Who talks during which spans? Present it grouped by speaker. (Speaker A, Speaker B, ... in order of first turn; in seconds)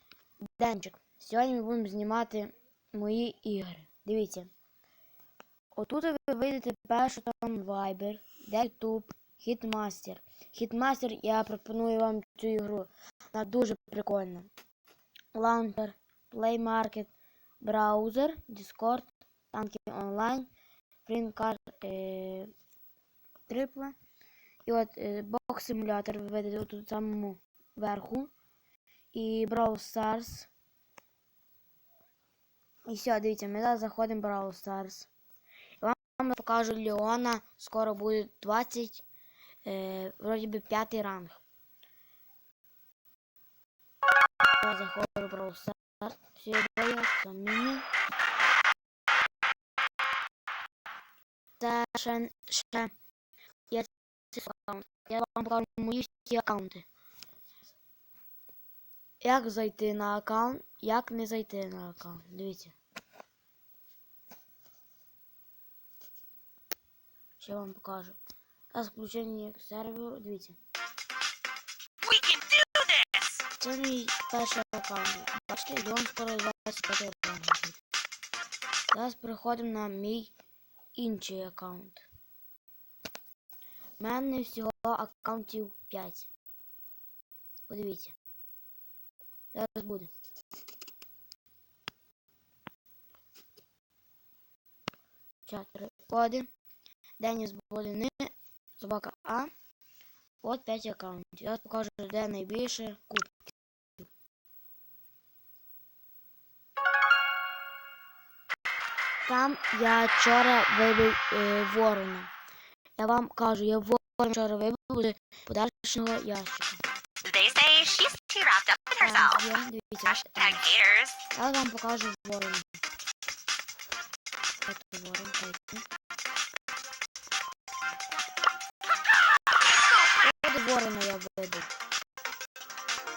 Speaker A: 0.4-4.5, 5.7-14.5, 15.3-20.5, 21.1-22.5, 23.5-24.0, 24.6-28.3, 29.1-30.5, 32.9-35.1, 35.8-39.0, 39.6-41.4, 44.6-47.9, 51.6-52.9, 53.7-56.8, 59.2-62.7, 67.4-68.2, 68.7-70.6, 73.6-77.8, 78.9-80.3, 80.9-82.0, 84.0-86.3, 87.7-88.2, 89.5-90.1, 95.5-96.5, 97.2-99.5, 100.4-104.1, 109.3-112.3, 113.0-116.8, 119.0-120.6, 121.3-122.7, 124.6-125.8, 130.1-131.7
Speaker B: 72.0-73.4, 117.2-119.4, 120.1-121.2